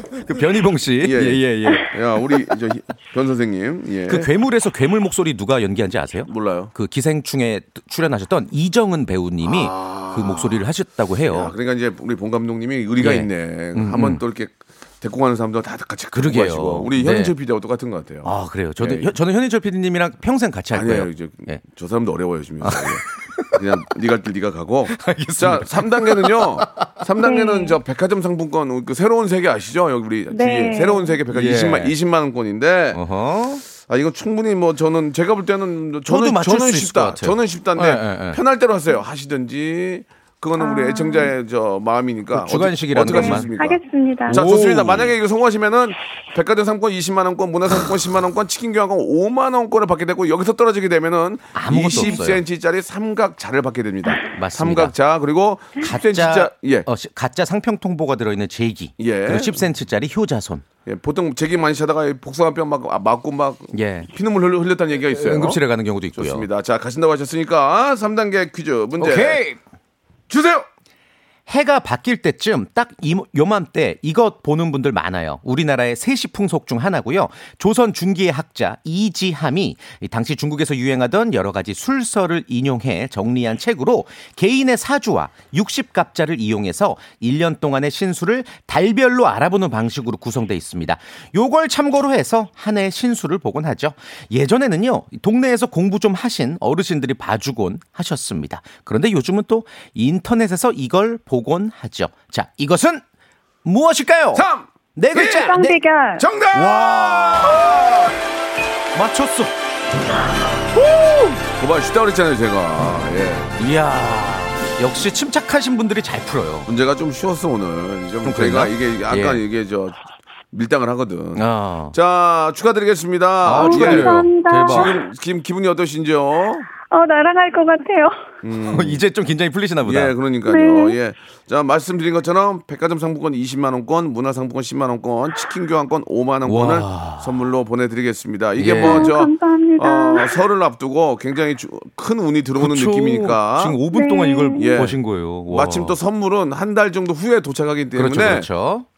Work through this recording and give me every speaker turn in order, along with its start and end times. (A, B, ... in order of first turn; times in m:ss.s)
0:00.2-0:01.9 A
0:01.0-0:04.3 B
0:04.1-0:11.5 A
0:06.3-0:06.7 B
0:09.4-0:10.6 B
0:11.3-0:19.1 B
0:13.0-0:14.2 A
0:16.1-0:17.3 A
0:18.2-0:21.6 A
0:20.7-0:33.0 B
0:22.6-0:23.6 A
0:24.9-0:26.9 A
0:27.2-0:27.8 C
0:30.3-0:31.2 C
0:31.3-0:31.9 A
0:32.9-0:33.6 A
0:33.7-0:56.9 B
0:36.1-0:38.4 A
0:40.6-0:41.3 C
0:42.3-0:43.5 A
0:43.0-0:44.4 C
0:44.3-0:45.1 A
0:51.5-0:52.4 A
0:54.3-0:54.9 A
0:55.8-1:00.6 A
0:59.0-0:59.6 B
1:00.8-1:05.6 B
1:03.7-1:04.1 A
1:05.1-1:06.5 A
1:06.1-1:09.4 B
1:09.0-1:09.6 A
1:10.3-1:10.6 B
1:11.5-1:43.0 A
1:43.6-1:45.8 A
1:44.3-1:45.6 B
1:45.2-1:46.3 C
1:46.2-1:48.1 B
1:46.5-1:47.7 A
1:48.9-1:49.5 A
1:51.5-1:53.5 B
1:53.6-1:56.7 A
1:56.7-2:00.0 B
1:58.2-1:59.4 A
2:00.5-2:06.7 B
2:01.4-2:02.0 A
2:03.4-2:05.0 A
2:03.5-2:04.9 C
2:06.8-2:08.2 C
2:08.4-2:09.0 B
2:08.7-2:10.1 A
2:09.8-2:23.8 B
2:10.4-2:11.0 C
2:16.4-2:17.3 A
2:18.6-2:19.1 A
2:18.7-2:20.4 C
2:22.6-2:26.0 A
2:23.9-2:24.9 C
2:24.6-2:28.5 B
2:27.9-2:28.8 A